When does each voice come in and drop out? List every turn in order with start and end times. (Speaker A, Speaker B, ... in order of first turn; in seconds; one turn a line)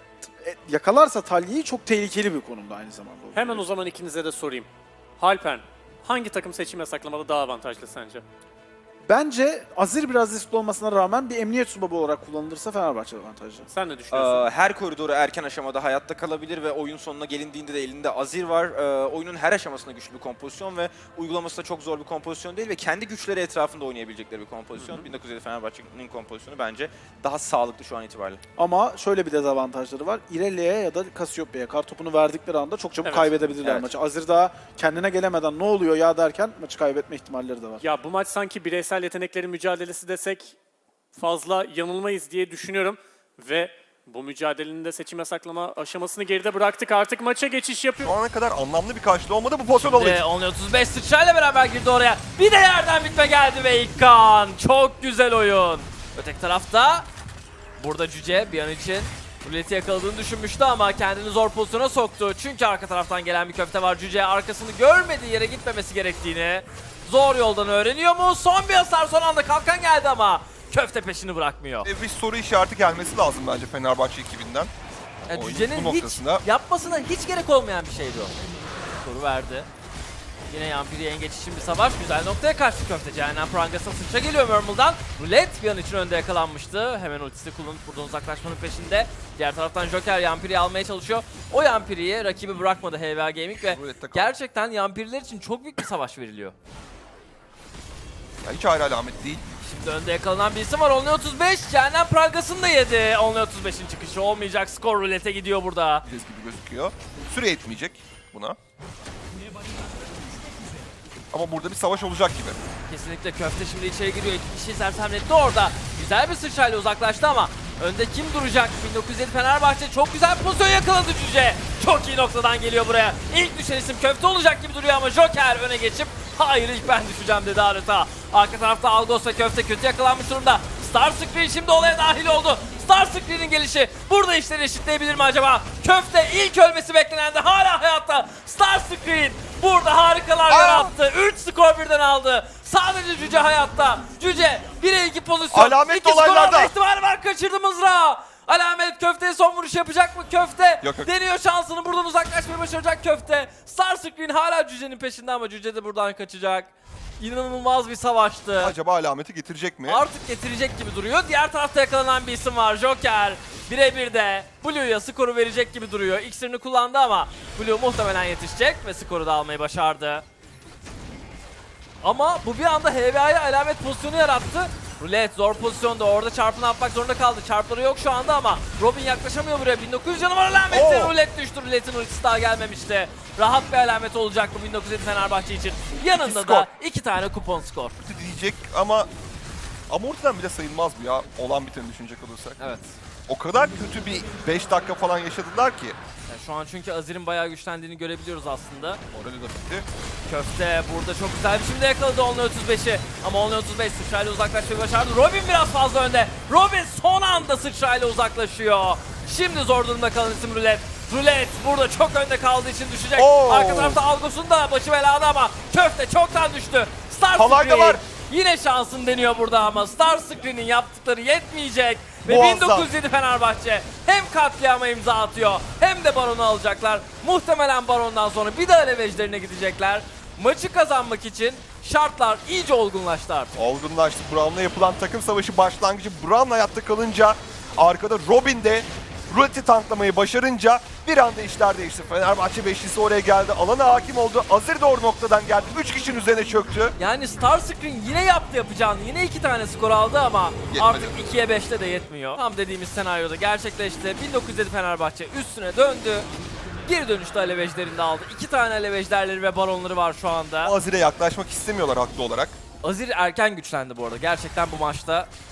Speaker A: 0.4-3.7
Speaker B: 3.3-4.7
Speaker B: 5.2-8.2
Speaker A: 9.1-13.7
Speaker B: 13.7-14.5
Speaker C: 14.1-28.4
Speaker A: 28.6-37.8
Speaker B: 33.0-33.3
Speaker C: 33.6-33.9
Speaker B: 37.8-40.6
Speaker B: 41.1-48.1
Speaker D: 48.0-50.2
Speaker E: 49.8-57.1
Speaker E: 57.8-71.9
Speaker D: 71.8-74.7
Speaker D: 75.3-76.4
Speaker E: 75.3-78.3
Speaker E: 79.0-79.7
Speaker E: 80.5-96.5
Speaker D: 93.7-94.3
Speaker D: 98.4-99.4
Speaker E: 99.6-106.0
Speaker D: 106.0-108.6
Speaker D: 111.3-112.6
Speaker E: 112.9-156.7
Speaker D: 140.5-140.9
Speaker D: 145.5-146.7
Speaker D: 150.8-151.1
Speaker E: 157.2-158.7
Speaker D: 158.6-160.1
Speaker E: 159.9-170.2
Speaker E: 172.0-187.9
Speaker D: 180.7-181.2
Speaker D: 186.1-186.7
Speaker D: 188.0-189.1
Speaker D: 189.9-192.6
Speaker E: 192.6-192.9
Speaker D: 193.3-196.0
Speaker E: 196.3-199.0
Speaker D: 199.1-199.9
Speaker E: 200.3-233.5
Speaker D: 213.2-214.0
Speaker D: 217.3-218.0
Speaker D: 222.2-222.9
Speaker D: 233.6-246.9
Speaker E: 247.0-256.3
Speaker D: 250.7-251.3
Speaker E: 256.9-260.7
Speaker D: 260.6-262.6
Speaker E: 262.8-265.3